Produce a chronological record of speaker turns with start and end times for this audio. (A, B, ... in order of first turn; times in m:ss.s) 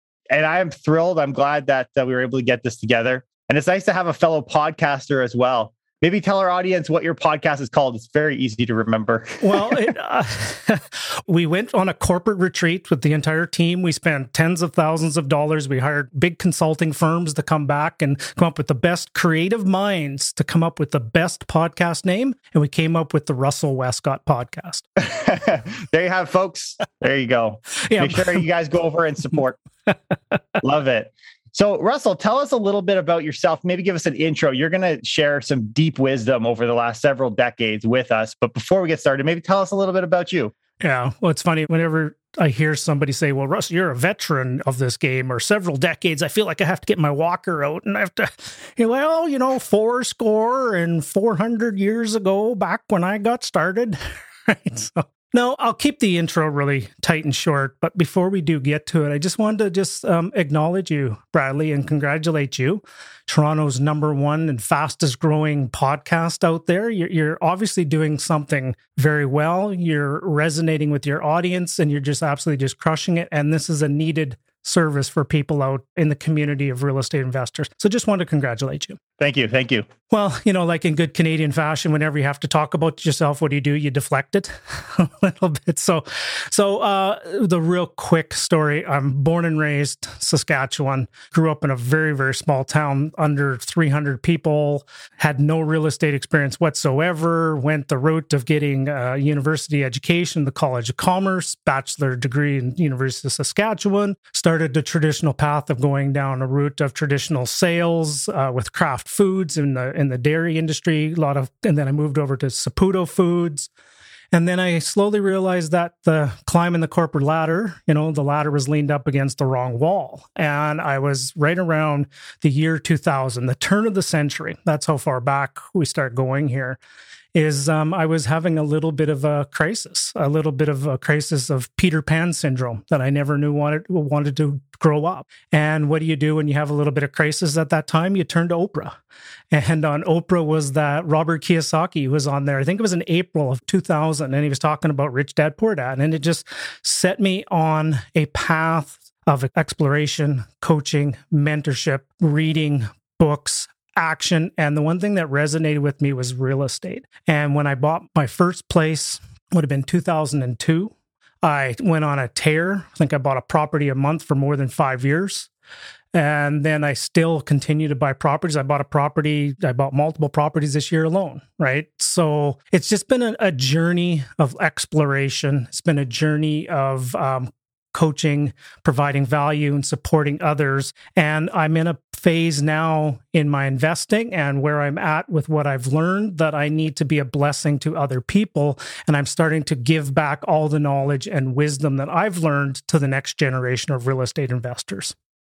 0:00.3-0:09.8 A
0:09.4-0:24.8 B
0:25.0-0:29.6 A
0:27.9-0:28.4 B
0:30.6-0:40.5 A
0:40.8-1:19.0 B
1:19.2-1:19.9 A
1:20.1-1:53.7 B
1:54.3-2:06.8 B
2:07.3-2:19.0 B
2:19.5-2:45.5 B
2:46.1-3:15.1 B